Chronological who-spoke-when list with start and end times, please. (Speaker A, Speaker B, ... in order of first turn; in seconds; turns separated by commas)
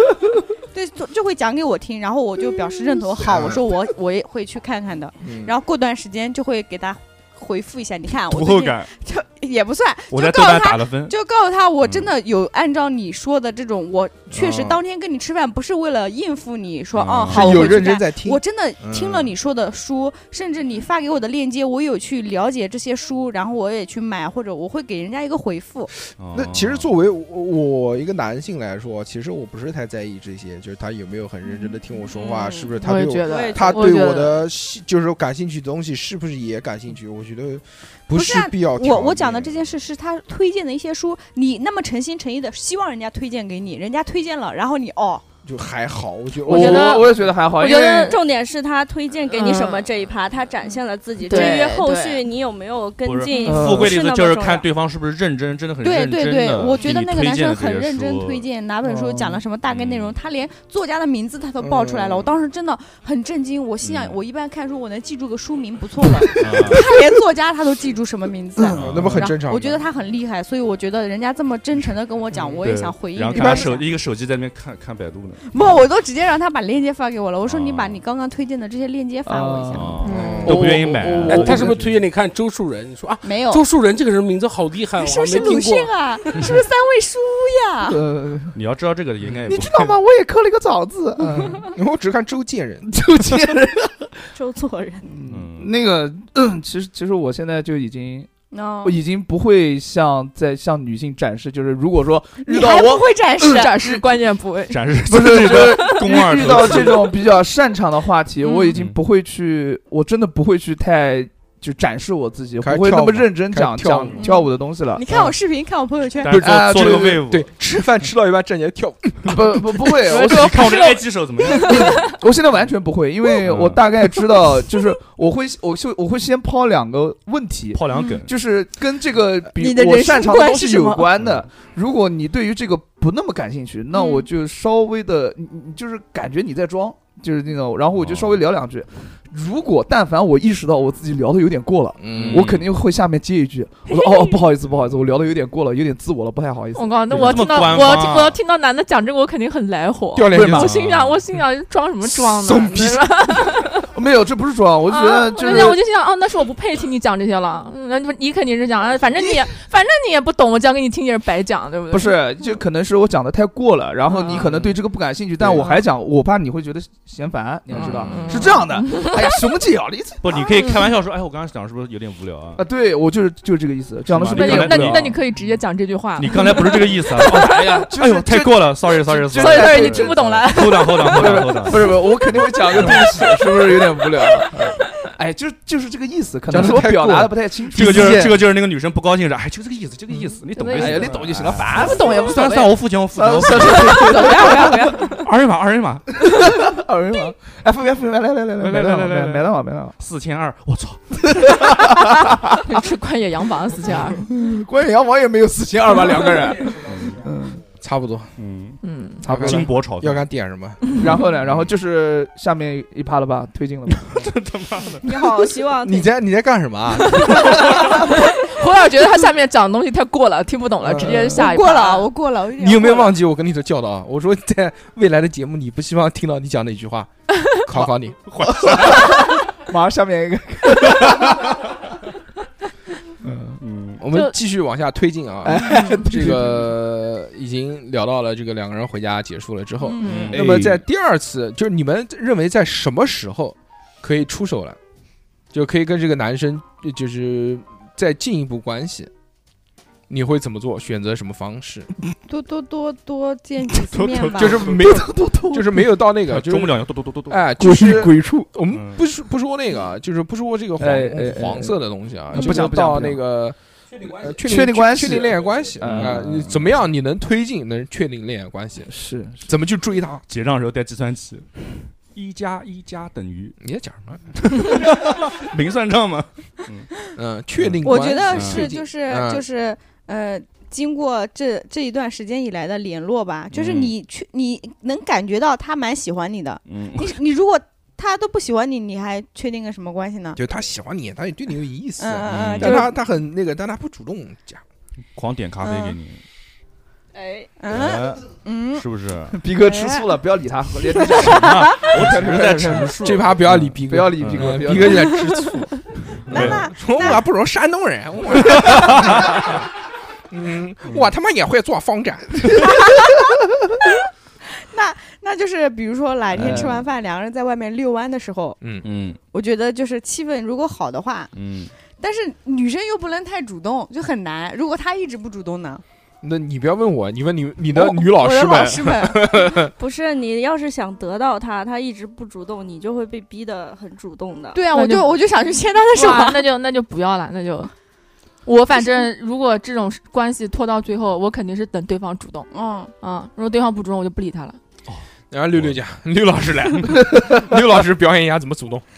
Speaker A: 0.7-25.9, Speaker B: 3.2-3.6, Speaker B: 5.2-5.5, Speaker C: 8.3-8.9, Speaker C: 10.1-11.1, Speaker C: 11.8-12.1, Speaker B: 14.3-14.8, Speaker C: 16.9-17.8, Speaker B: 17.3-19.3, Speaker C: 26.2-26.9, Speaker B: 26.3-39.7, Speaker D: 32.1-32.7, Speaker E: 32.8-34.5, Speaker D: 33.2-33.9, Speaker A: 38.1-45.2, Speaker B: 45.5-47.2, Speaker F: 46.5-48.2, Speaker E: 46.5-47.1, Speaker D: 47.5-54.7, Speaker E: 49.3-49.9, Speaker E: 51.2-52.3, Speaker C: 53.0-58.5, Speaker F: 53.4-54.0, Speaker A: 55.8-73.9, Speaker F: 58.8-59.4, Speaker C: 59.7-60.2, Speaker B: 61.6-62.3, Speaker C: 63.8-64.2, Speaker C: 66.4-66.9, Speaker B: 68.7-69.8, Speaker C: 68.8-69.2, Speaker C: 72.6-75.5, Speaker F: 73.3-73.7, Speaker A: 75.5-80.1, Speaker C: 77.4-78.0, Speaker F: 79.3-82.0, Speaker C: 79.7-81.8, Speaker E: 80.0-80.4, Speaker B: 80.1-80.7, Speaker G: 80.6-86.5, Speaker A: 83.2-83.7, Speaker A: 85.0-88.0, Speaker F: 87.9-88.6, Speaker C: 88.5-89.9, Speaker F: 89.5-91.7, Speaker B: 91.7-92.9, Speaker F: 92.9-94.1, Speaker D: 94.3-95.1, Speaker F: 95.0-98.3, Speaker C: 95.3-95.7, Speaker A: 98.5-99.0, Speaker F: 98.8-104.0, Speaker A: 102.4-103.9, Speaker E: 103.5-104.9, Speaker C: 104.7-107.1, Speaker F: 105.1-115.3, Speaker E: 105.8-106.0, Speaker C: 108.8-109.0, Speaker B: 112.6-114.2, Speaker A: 114.2-116.4, Speaker C: 116.2-117.5, Speaker B: 116.3-119.5, Speaker F: 116.4-117.2, Speaker F: 119.3-120.8, Speaker C: 120.1-122.0, Speaker E: 120.2-122.1, Speaker F: 121.5-147.6, Speaker C: 123.4-123.8, Speaker C: 127.7-128.3, Speaker A: 129.5-131.1, Speaker C: 131.2-131.5, Speaker C: 138.0-138.5, Speaker B: 142.0-142.6, Speaker C: 142.1-142.7, Speaker E: 146.8-153.9, Speaker C: 147.1-148.4, Speaker B: 150.2-150.7, Speaker F: 150.3-150.6, Speaker C: 150.3-151.2, Speaker B: 152.1-153.0, Speaker F: 153.9-155.8, Speaker E: 154.9-162.2, Speaker F: 161.9-170.3, Speaker E: 164.1-164.5, Speaker C: 164.3-164.8, Speaker C: 167.7-168.4, Speaker B: 167.7-168.5, Speaker E: 167.8-169.4, Speaker C: 170.2-172.7, Speaker F: 172.6-175.2, Speaker C: 174.1-175.4, Speaker E: 174.3-177.6, Speaker C: 176.2-183.2, Speaker F: 177.2-188.4, Speaker E: 179.3-181.7, Speaker E: 182.9-183.4, Speaker B: 186.5-188.3, Speaker C: 187.7-196.3, Speaker E: 190.5-192.8, Speaker F: 190.7-192.4, Speaker F: 193.1-195.0, Speaker E: 193.7-195.3, Speaker F: 196.3-200.0, Speaker C: 198.6-201.8, Speaker F: 201.3-202.7, Speaker E: 202.6-204.3, Speaker F: 204.1-207.6, Speaker C: 206.8-207.2, Speaker B: 207.8-208.3, Speaker C: 208.4-210.3, Speaker E: 208.8-209.2, Speaker F: 209.2-209.7, Speaker B: 209.3-210.9, Speaker F: 211.0-214.1, Speaker C: 211.4-211.7, Speaker C: 213.9-215.1, Speaker D: 215.0-216.1, Speaker B: 215.8-218.0, Speaker E: 217.1-222.1, Speaker F: 220.9-221.4, Speaker A: 221.3-223.2, Speaker B: 222.6-227.1, Speaker B: 227.7-228.3, Speaker C: 227.8-229.3, Speaker F: 228.4-231.4, Speaker C: 230.9-231.4, Speaker F: 233.2-233.6, Speaker C: 233.6-234.0, Speaker B: 234.0-244.8, Speaker E: 234.1-234.3, Speaker F: 235.4-236.7, Speaker A: 239.8-240.3, Speaker C: 240.0-240.8, Speaker F: 240.3-240.7, Speaker B: 245.5-249.1, Speaker B: 250.1-251.9, Speaker A: 252.3-254.8, Speaker C: 253.8-254.8, Speaker B: 254.4-270.2, Speaker F: 254.7-255.8, Speaker C: 256.3-257.4, Speaker F: 257.6-258.5, Speaker C: 258.7-259.0, Speaker F: 260.8-261.8, Speaker F: 262.3-263.2, Speaker F: 264.4-266.2, Speaker C: 265.8-266.8, Speaker F: 268.9-269.5, Speaker C: 270.3-273.6, Speaker B: 273.6-274.9, Speaker C: 274.5-276.9, Speaker B: 277.1-279.4, Speaker C: 277.6-278.7, Speaker A: 277.8-290.4, Speaker C: 283.5-283.9, Speaker C: 286.7-287.2, Speaker B: 290.4-294.6, Speaker A: 292.0-293.0, Speaker C: 292.3-292.8, Speaker C: 295.1-296.2, Speaker A: 295.6-296.0, Speaker D: 297.1-297.5, Speaker A: 297.6-298.9, Speaker C: 297.7-299.4, Speaker F: 299.3-302.9, Speaker A: 299.6-300.1, Speaker C: 301.2-305.0, Speaker B: 302.8-309.7, Speaker F: 303.8-305.5, Speaker C: 306.2-307.2, Speaker A: 306.4-307.2, Speaker C: 308.3-309.4, Speaker B: 310.3-313.1, Speaker A: 312.5-313.3, Speaker A: 314.5-318.6, Speaker C: 316.4-316.7, Speaker F: 316.4-316.7, Speaker B: 318.6-318.9, Speaker C: 318.8-319.2, Speaker A: 319.3-321.3, Speaker C: 321.3-321.7, Speaker A: 322.0-325.8, Speaker B: 326.2-329.7, Speaker A: 327.7-329.3, Speaker D: 329.8-334.6, Speaker A: 334.5-336.5, Speaker E: 334.7-335.1, Speaker E: 335.9-337.7, Speaker E: 338.5-342.5, Speaker A: 342.5-342.9, Speaker E: 343.0-344.6, Speaker B: 345.3-348.8, Speaker C: 345.6-345.8